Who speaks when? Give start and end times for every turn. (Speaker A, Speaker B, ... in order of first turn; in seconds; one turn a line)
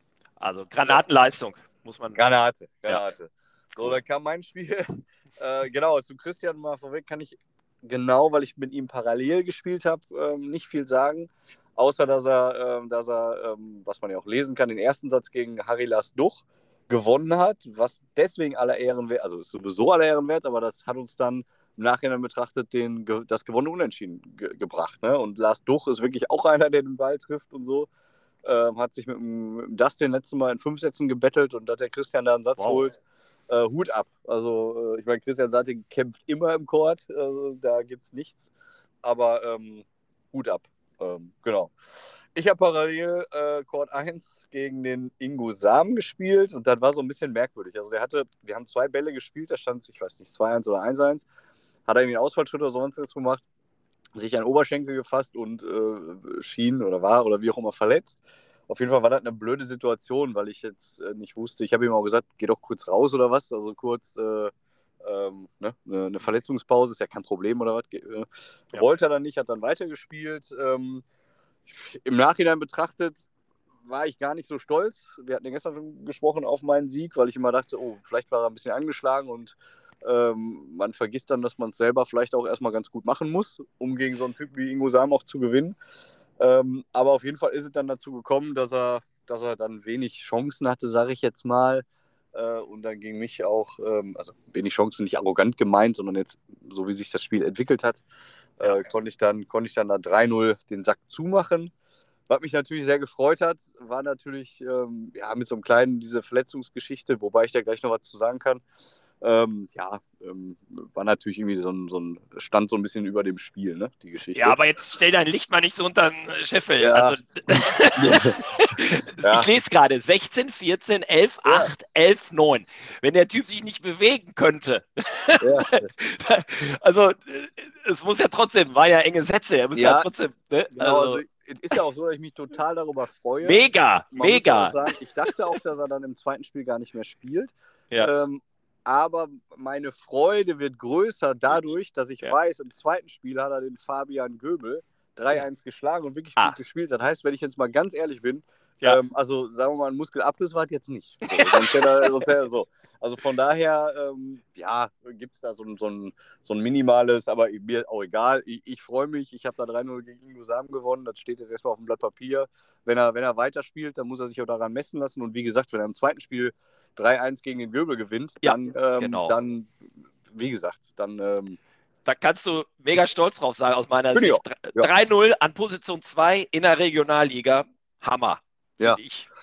Speaker A: 0.4-2.2
Speaker B: 2.1-27.9
Speaker B: 28.4-38.5
Speaker A: 32.6-32.9
Speaker B: 39.0-41.7
Speaker B: 42.3-51.3
Speaker B: 51.9-53.4
Speaker B: 54.1-71.0
Speaker B: 71.7-73.3
Speaker B: 73.8-85.8
Speaker B: 86.4-98.0
Speaker B: 98.6-101.7
Speaker B: 102.3-108.6
Speaker B: 109.2-114.6
Speaker A: 114.3-131.2
Speaker B: 116.8-118.4
Speaker B: 119.2-119.5
Speaker B: 121.5-121.7
Speaker B: 125.4-125.9
Speaker B: 129.7-130.1
Speaker B: 130.8-171.6
Speaker A: 133.4-135.6
Speaker A: 151.3-152.3
Speaker A: 168.4-169.4
Speaker A: 172.1-179.3
Speaker B: 174.1-174.9